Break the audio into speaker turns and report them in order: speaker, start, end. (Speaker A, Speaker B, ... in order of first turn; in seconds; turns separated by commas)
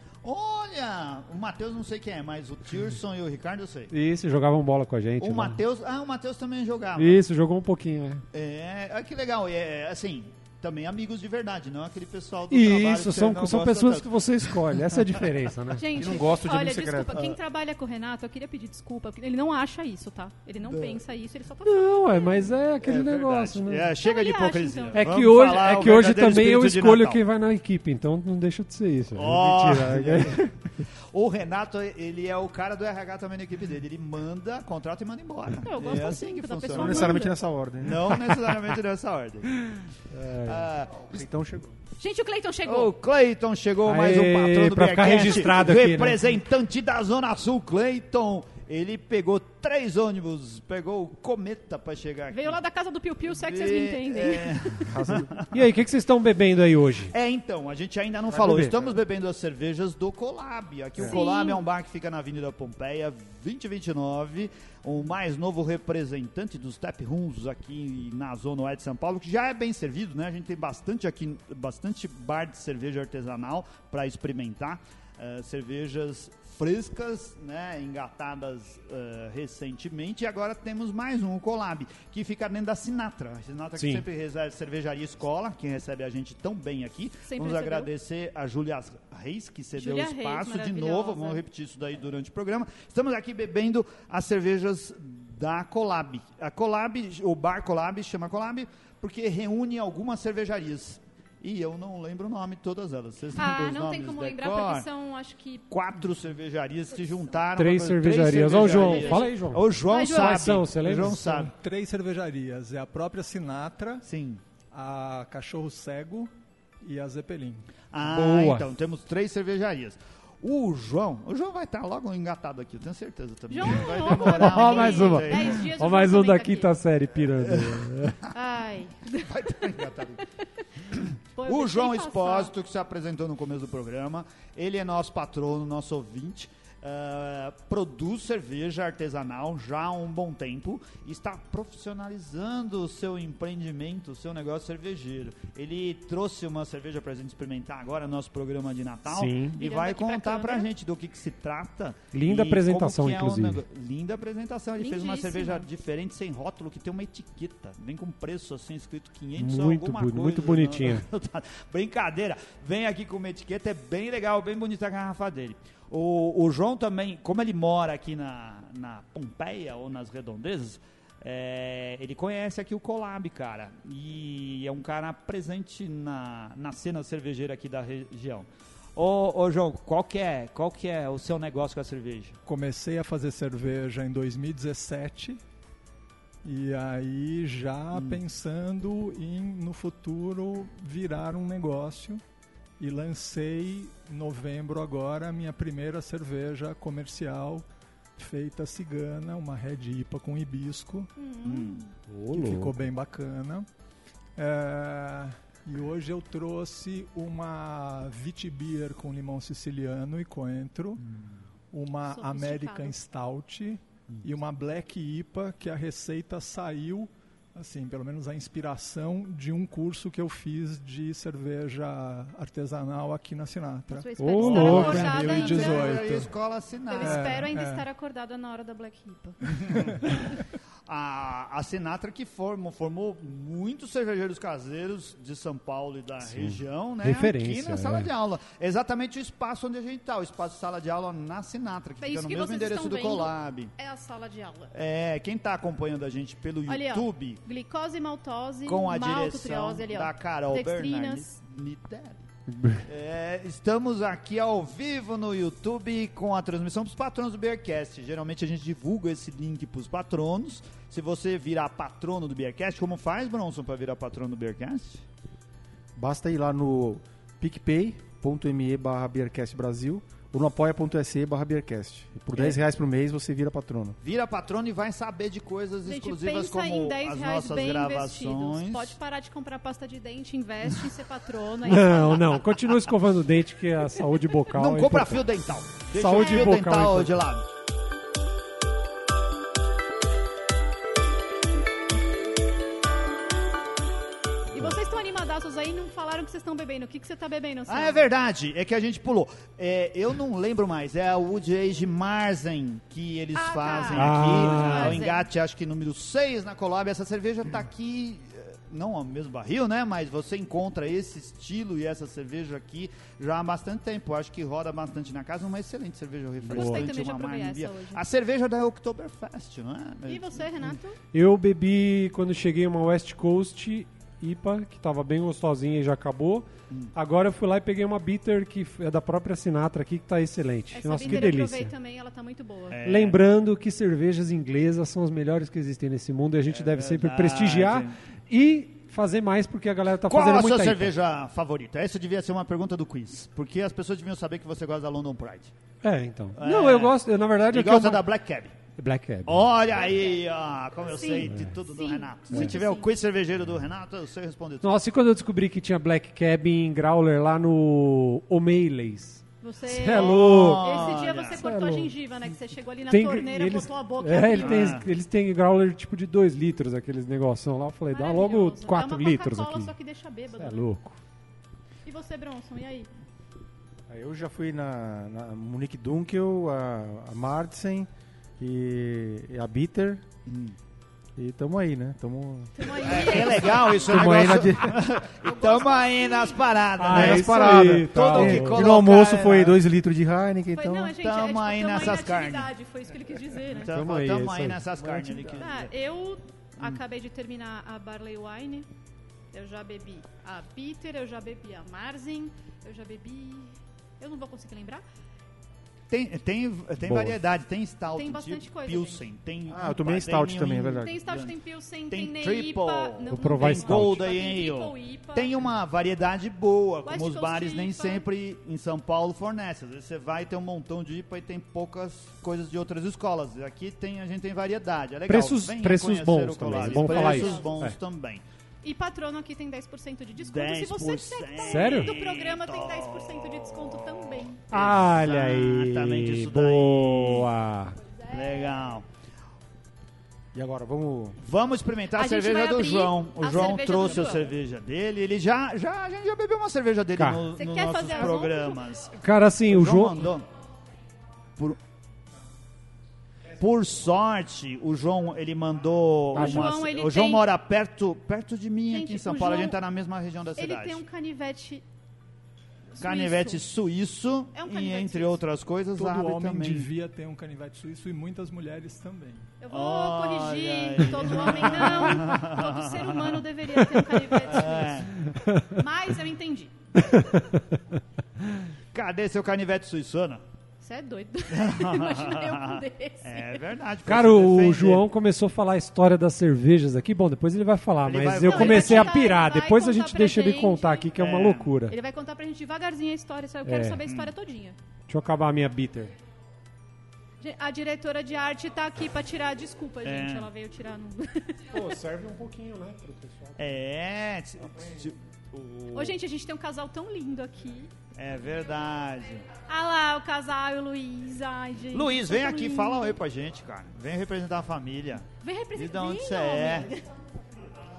Speaker A: 0.2-3.9, Speaker B: 3.9-5.6, Speaker A: 5.2-7.2, Speaker B: 7.0-8.2, Speaker A: 8.3-15.2, Speaker B: 12.5-15.8, Speaker C: 15.8-22.5, Speaker D: 15.9-17.3, Speaker A: 20.7-21.0, Speaker B: 21.6-23.9, Speaker A: 22.8-27.2, Speaker C: 24.0-25.1, Speaker B: 24.9-30.5, Speaker A: 29.1-30.6, Speaker A: 31.1-37.2, Speaker C: 35.6-37.4, Speaker D: 36.7-38.2, Speaker A: 37.8-39.7, Speaker B: 40.1-40.7, Speaker A: 40.4-41.2, Speaker D: 41.1-41.7, Speaker C: 42.0-42.9, Speaker A: 42.7-52.6, Speaker B: 43.9-46.2, Speaker C: 52.3-54.9, Speaker A: 53.3-55.6, Speaker D: 54.9-55.3, Speaker B: 55.5-57.1, Speaker A: 57.1-104.9, Speaker D: 58.3-59.0, Speaker C: 61.0-61.7, Speaker B: 83.8-84.1, Speaker C: 87.3-87.9, Speaker C: 89.8-91.4, Speaker C: 103.4-105.7, Speaker A: 105.7-111.5, Speaker B: 107.6-111.2, Speaker C: 108.5-109.3, Speaker C: 109.9-110.6, Speaker E: 111.2-114.0, Speaker A: 114.0-114.4, Speaker E: 114.7-117.7, Speaker A: 117.9-125.7, Speaker B: 118.0-118.7, Speaker C: 123.5-126.7, Speaker B: 124.1-128.2, Speaker A: 127.4-127.8, Speaker C: 128.3-129.6, Speaker A: 129.2-130.2, Speaker A: 130.9-182.4, Speaker C: 131.4-132.5, Speaker B: 149.1-149.6, Speaker C: 149.6-150.7, Speaker B: 152.1-153.6, Speaker C: 154.8-155.7, Speaker B: 159.4-161.0, Speaker E: 182.5-185.4, Speaker E: 186.4-192.2, Speaker A: 187.9-188.2, Speaker E: 192.8-197.7, Speaker E: 198.2-201.1, Speaker C: 201.2-201.9, Speaker A: 201.4-201.8, Speaker B: 202.1-202.8, Speaker E: 202.3-203.7, Speaker E: 204.4-211.0, Speaker E: 211.7-226.3, Speaker C: 212.1-213.0, Speaker C: 223.9-226.1, Speaker B: 224.2-225.1, Speaker A: 224.4-227.5, Speaker C: 226.9-229.6, Speaker E: 227.0-227.8, Speaker A: 230.9-243.7, Speaker B: 236.2-238.1, Speaker C: 242.0-244.7, Speaker A: 244.7-247.4, Speaker C: 246.7-251.4, Speaker A: 248.7-252.3, Speaker B: 252.5-252.8, Speaker A: 252.8-265.0, Speaker D: 265.9-274.0, Speaker A: 274.0-278.9, Speaker C: 275.8-282.4, Speaker B: 281.7-285.3, Speaker A: 284.5-287.4, Speaker B: 285.9-287.2, Speaker C: 286.1-286.5, Speaker C: 294.5-298.1, Speaker A: 297.7-320.8, Speaker C: 303.3-305.3, Speaker B: 303.9-305.0, Speaker B: 316.4-316.9, Speaker C: 316.5-318.0, Speaker C: 320.1-321.0, Speaker B: 321.1-331.7, Speaker C: 330.7-332.8, Speaker A: 332.7-333.2, Speaker B: 332.8-340.9, Speaker A: 336.5-338.0, Speaker A: 340.1-345.5, Speaker B: 345.8-348.0, Speaker A: 346.4-347.0, Speaker A: 347.5-348.6, Speaker B: 348.8-349.5, Speaker A: 349.3-354.7, Speaker C: 350.9-352.9, Speaker B: 351.3-351.5, Speaker B: 354.6-360.7, Speaker C: 359.4-364.8, Speaker A: 359.9-361.4, Speaker B: 361.3-361.9, Speaker B: 362.9-369.7, Speaker A: 364.4-364.9, Speaker C: 367.9-370.7, Speaker B: 370.4-371.0, Speaker C: 371.9-372.9, Speaker D: 373.9-377.9, Speaker D: 378.4-380.0, Speaker A: 380.3-380.6, Speaker D: 381.2-383.2, Speaker C: 382.6-384.4, Speaker A: 382.8-389.6, Speaker D: 383.8-384.8, Speaker C: 385.2-386.5, Speaker B: 386.8-388.6, Speaker D: 386.9-391.0, Speaker C: 390.5-393.7, Speaker A: 391.0-392.5, Speaker A: 393.5-395.7, Speaker B: 393.7-394.6, Speaker D: 394.8-395.4, Speaker C: 395.3-398.7, Speaker C: 399.3-404.8, Speaker A: 405.9-411.4, Speaker B: 406.8-407.2, Speaker C: 407.9-409.1, Speaker D: 409.5-410.9, Speaker C: 410.8-415.4, Speaker A: 411.9-428.2, Speaker B: 413.1-414.0, Speaker C: 416.9-418.1, Speaker B: 425.1-427.8, Speaker C: 426.5-427.5, Speaker C: 428.6-434.4, Speaker A: 430.2-437.3, Speaker B: 431.4-431.9, Speaker B: 434.5-437.8, Speaker C: 437.8-438.6, Speaker A: 438.1-438.9, Speaker D: 440.3-441.2, Speaker A: 441.2-448.9, Speaker C: 441.9-444.3, Speaker B: 447.0-447.2, Speaker C: 447.4-448.6, Speaker B: 448.9-450.1, Speaker A: 449.5-450.3, Speaker A: 453.4-460.8, Speaker B: 456.1-456.5, Speaker C: 456.1-457.2, Speaker C: 458.7-459.6, Speaker C: 460.4-461.6, Speaker C: 462.8-463.5, Speaker A: 462.8-466.7, Speaker C: 464.3-465.2, Speaker E: 465.8-469.3, Speaker C: 469.4-474.9, Speaker A: 469.5-473.2, Speaker A: 474.1-475.0, Speaker B: 475.1-475.6, Speaker C: 475.5-476.6, Speaker B: 476.8-477.4, Speaker A: 478.7-480.2, Speaker C: 480.6-483.4, Speaker A: 481.3-484.9, Speaker B: 483.9-491.8, Speaker A: 487.9-489.0, Speaker C: 488.2-490.9, Speaker A: 490.9-491.6, Speaker C: 491.7-494.6, Speaker B: 493.4-493.8, Speaker A: 493.9-494.1, Speaker B: 494.9-495.9, Speaker C: 497.2-501.6, Speaker A: 499.9-500.3, Speaker B: 501.5-503.4, Speaker A: 503.4-505.9, Speaker C: 505.7-507.7, Speaker A: 508.0-509.2, Speaker C: 509.5-513.0, Speaker A: 511.7-516.7, Speaker C: 515.2-516.9